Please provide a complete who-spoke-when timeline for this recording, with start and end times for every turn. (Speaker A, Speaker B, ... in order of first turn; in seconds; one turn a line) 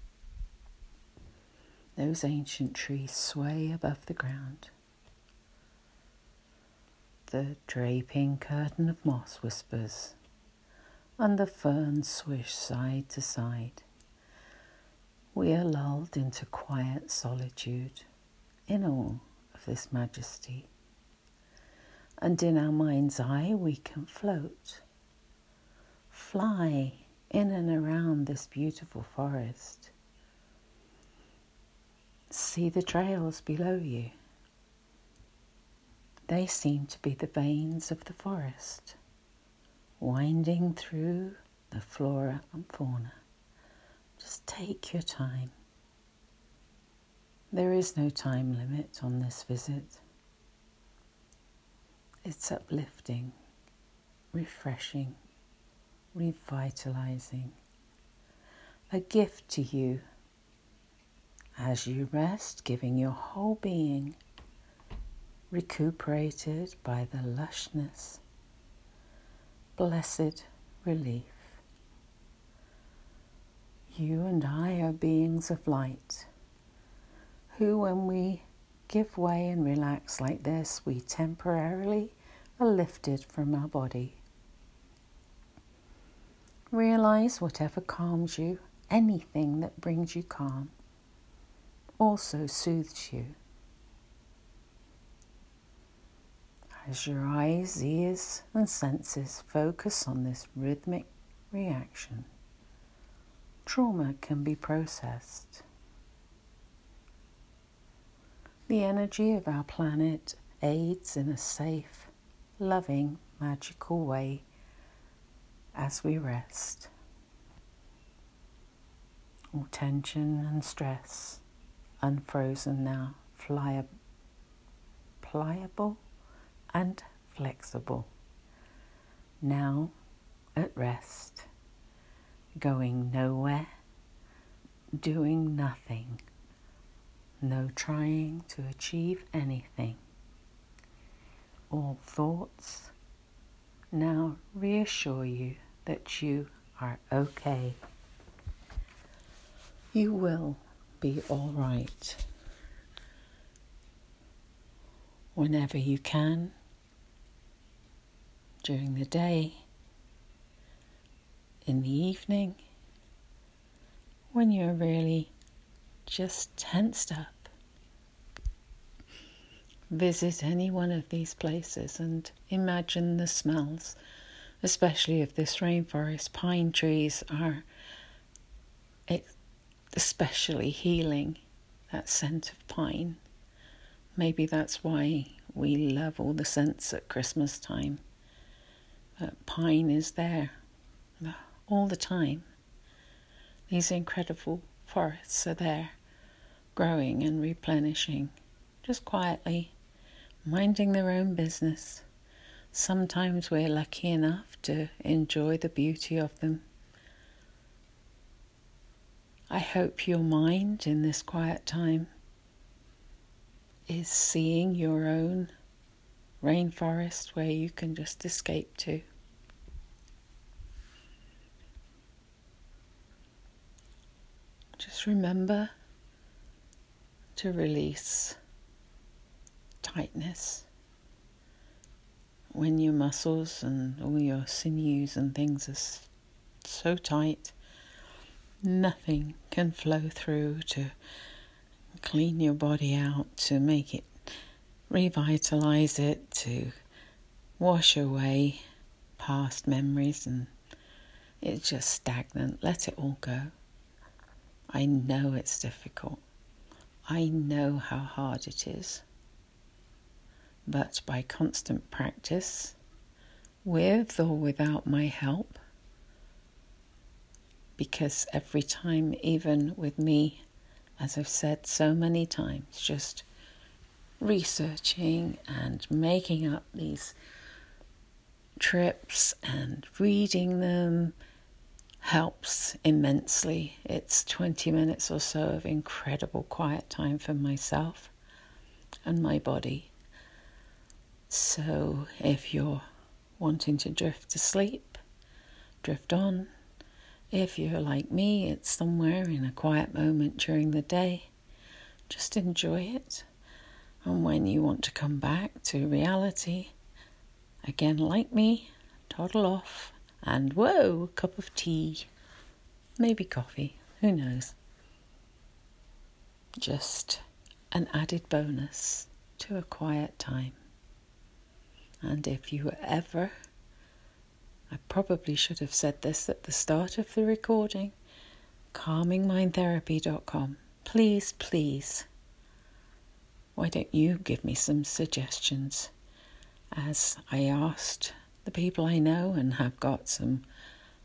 Speaker A: 2.0-4.7
Speaker A: 7.3-10.2
Speaker A: 11.2-13.8
Speaker A: 15.3-18.1
Speaker A: 18.7-20.7
Speaker A: 22.2-24.8
Speaker A: 26.1-29.9
Speaker A: 32.3-34.1
Speaker A: 36.3-39.0
Speaker A: 40.0-43.2
Speaker A: 44.2-45.5
Speaker A: 47.5-50.0
Speaker A: 52.2-53.3
Speaker A: 54.3-55.2
Speaker A: 56.1-57.6
Speaker A: 58.9-60.0
Speaker A: 61.6-64.2
Speaker A: 65.5-68.2
Speaker A: 69.8-71.6
Speaker A: 73.9-76.3
Speaker A: 77.5-84.2
Speaker A: 86.7-90.7
Speaker A: 92.0-93.4
Speaker A: 96.8-102.3
Speaker A: 103.7-105.7
Speaker A: 108.7-114.5
Speaker A: 115.8-116.9
Speaker A: 119.5-121.4
Speaker A: 122.0-123.9
Speaker A: 125.2-126.0
Speaker A: 126.7-128.1
Speaker A: 129.4-129.9
Speaker A: 130.6-131.5
Speaker A: 132.6-133.7
Speaker A: 135.0-136.2
Speaker A: 137.4-140.0
Speaker A: 141.7-142.9
Speaker A: 143.9-147.8
Speaker A: 149.9-152.2
Speaker A: 155.3-156.5
Speaker A: 158.6-159.6
Speaker A: 161.7-162.6
Speaker A: 164.3-165.3
Speaker A: 166.1-167.5
Speaker A: 169.9-174.0
Speaker A: 174.6-177.7
Speaker A: 179.9-183.2
Speaker A: 184.2-188.0
Speaker A: 189.2-190.6
Speaker A: 191.2-192.5
Speaker A: 193.7-196.0
Speaker A: 196.8-198.3
Speaker A: 198.8-199.7
Speaker A: 200.4-202.1
Speaker A: 202.7-206.6
Speaker A: 209.5-212.1
Speaker A: 213.9-215.5
Speaker A: 216.4-219.0
Speaker A: 224.8-225.7
Speaker A: 227.4-228.4
Speaker A: 229.8-230.7
Speaker A: 232.5-236.1
Speaker A: 236.6-237.6
Speaker A: 238.6-240.9
Speaker A: 242.0-244.1
Speaker A: 244.9-246.8
Speaker A: 247.6-248.6
Speaker A: 249.2-250.5
Speaker A: 251.4-253.5
Speaker A: 254.7-256.2
Speaker A: 257.1-259.1
Speaker A: 260.7-262.8
Speaker A: 263.6-265.6
Speaker A: 267.8-270.4
Speaker A: 271.0-273.3
Speaker A: 274.2-277.2
Speaker A: 278.6-281.1
Speaker A: 282.0-288.1
Speaker A: 289.1-289.9
Speaker A: 291.3-292.9
Speaker A: 293.4-295.0
Speaker A: 295.8-296.5
Speaker A: 297.3-301.3
Speaker A: 302.1-303.3
Speaker A: 304.0-306.7
Speaker A: 307.6-312.1
Speaker A: 313.0-314.6
Speaker A: 316.6-320.6
Speaker A: 322.0-323.3
Speaker A: 324.7-327.9
Speaker A: 328.7-332.1
Speaker A: 333.6-335.9
Speaker A: 336.7-340.4